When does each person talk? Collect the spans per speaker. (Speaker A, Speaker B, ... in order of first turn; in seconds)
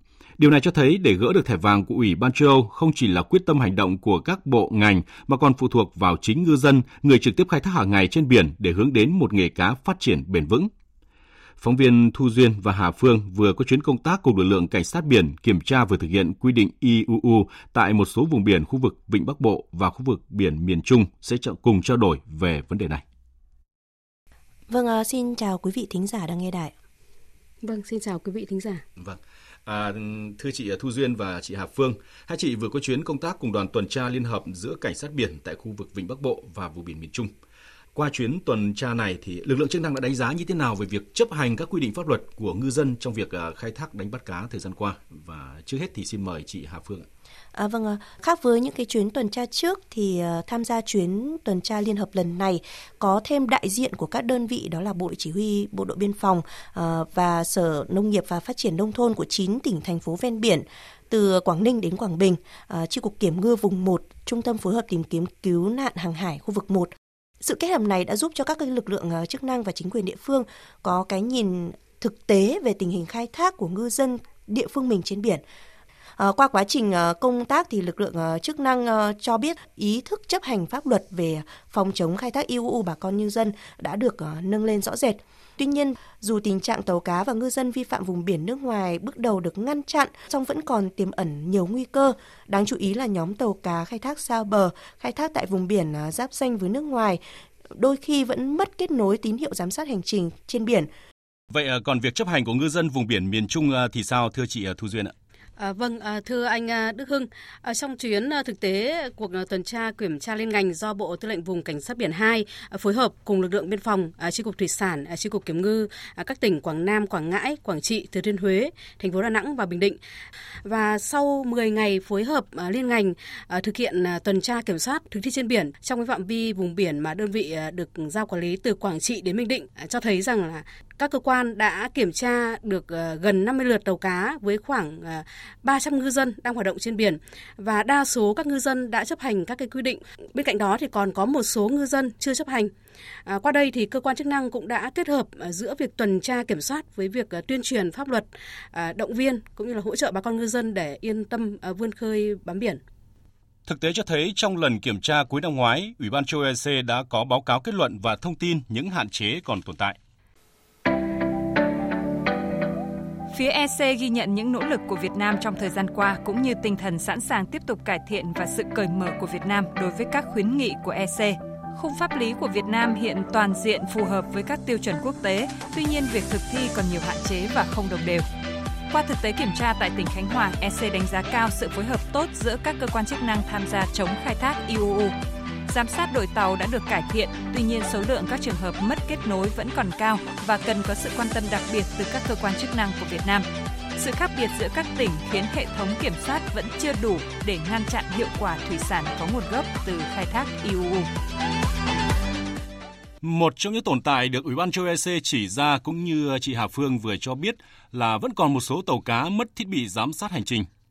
Speaker A: 0.4-10.7, 11.6-23.0, 29.0-37.3, 37.9-47.1, 101.5-105.1, 153.7-160.0, 203.2-210.7
Speaker B: 24.7-26.7, 47.5-66.9, 67.4-75.4, 76.2-100.9
Speaker C: 27.6-28.8, 105.6-120.0, 120.6-142.7, 143.3-152.8
Speaker D: 163.3-178.2, 178.9-185.1, 185.7-193.4, 194.0-201.1